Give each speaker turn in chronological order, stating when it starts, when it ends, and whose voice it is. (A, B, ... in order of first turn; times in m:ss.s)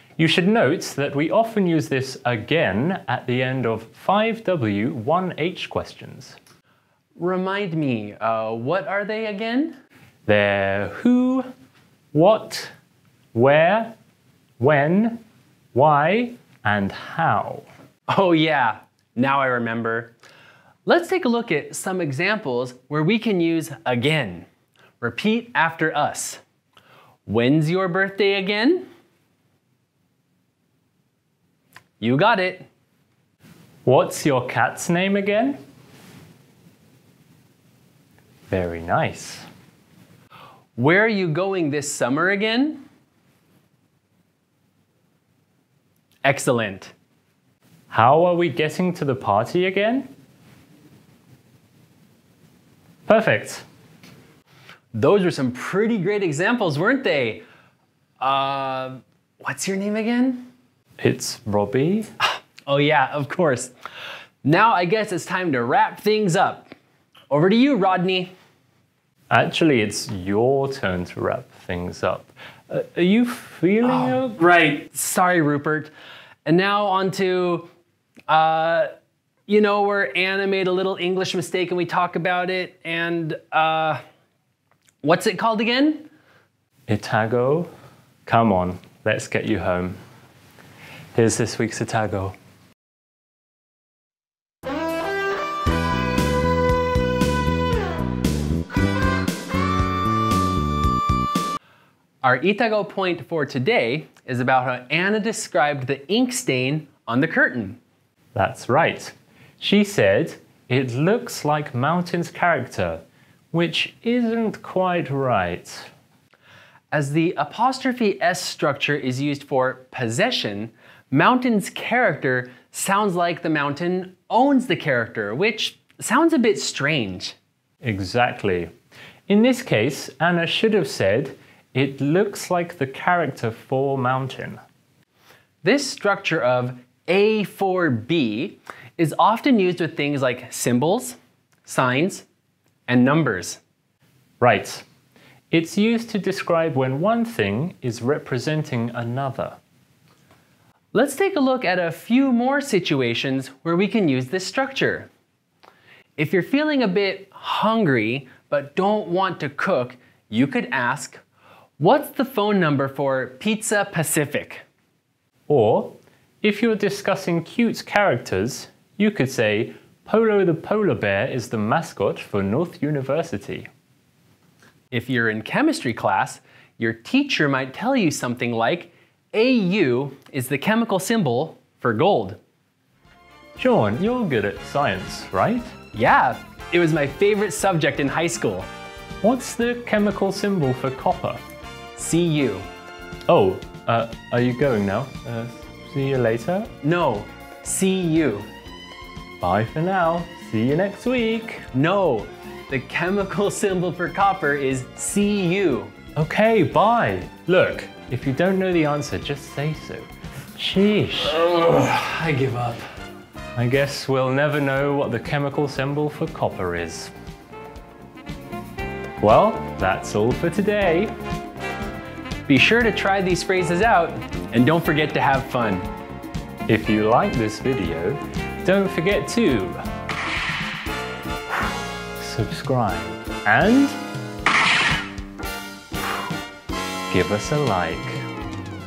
0:00.2-0:06.4 A
0:07.2-0:09.7 B
0:10.3-0:11.4 A
0:12.1-0:12.7 A
0:13.3-0:13.9 A
0:14.6-0:15.2 A
0:15.7-0:17.6 A
0:18.1-0:20.1 B
0:20.8-0:24.5 B
0:25.0-0:26.4 B
0:27.2-0:28.8 B
0:32.0-0:32.7 B
0:33.8-0:35.6 A
0:38.5-0:39.4 A
0:40.8-0:42.8 B
0:46.2-0:46.9 B
0:47.9-0:50.1 A
0:53.1-0:53.6 A
0:54.9-0:57.4 B
0:58.2-1:00.5 B
1:01.0-1:02.1 A
1:02.2-1:03.7 B
1:04.4-1:06.7 B
1:07.3-1:08.3 B
1:09.3-1:14.4 A
1:13.8-1:15.9 B
1:16.4-1:17.7 B
1:18.3-1:18.9 B
1:19.5-1:24.0 B
1:25.0-1:26.1 B
1:26.9-1:27.7 A
1:28.2-1:30.0 A
1:31.1-1:32.4 A
1:42.2-1:47.8 B
1:48.3-1:55.9 A
1:56.9-2:07.4 B
2:07.8-2:08.7 A
2:09.3-2:14.6 A
2:15.6-2:22.2 B
2:22.9-2:23.6 B
2:24.4-2:24.8 A
2:25.5-2:29.6 A
2:30.9-2:35.1 B
2:36.2-2:41.2 B
2:41.8-2:44.6 B
2:45.5-2:53.7 A
2:54.9-3:02.4 B
3:03.6-3:05.7 A
3:05.9-3:08.7 B
3:09.2-3:11.4 A
3:12.0-3:12.6 B
3:13.3-3:16.7 A
3:16.8-3:18.5 B
3:19.4-3:21.6 A
3:21.7-3:25.9 B
3:26.2-3:31.4 A
3:31.2-3:32.8 B
3:33.6-3:37.1 A
3:39.2-3:41.1 A
3:42.5-3:45.9 B
3:46.7-3:49.8 A
3:52.2-3:54.0 A
3:57.1-3:58.2 A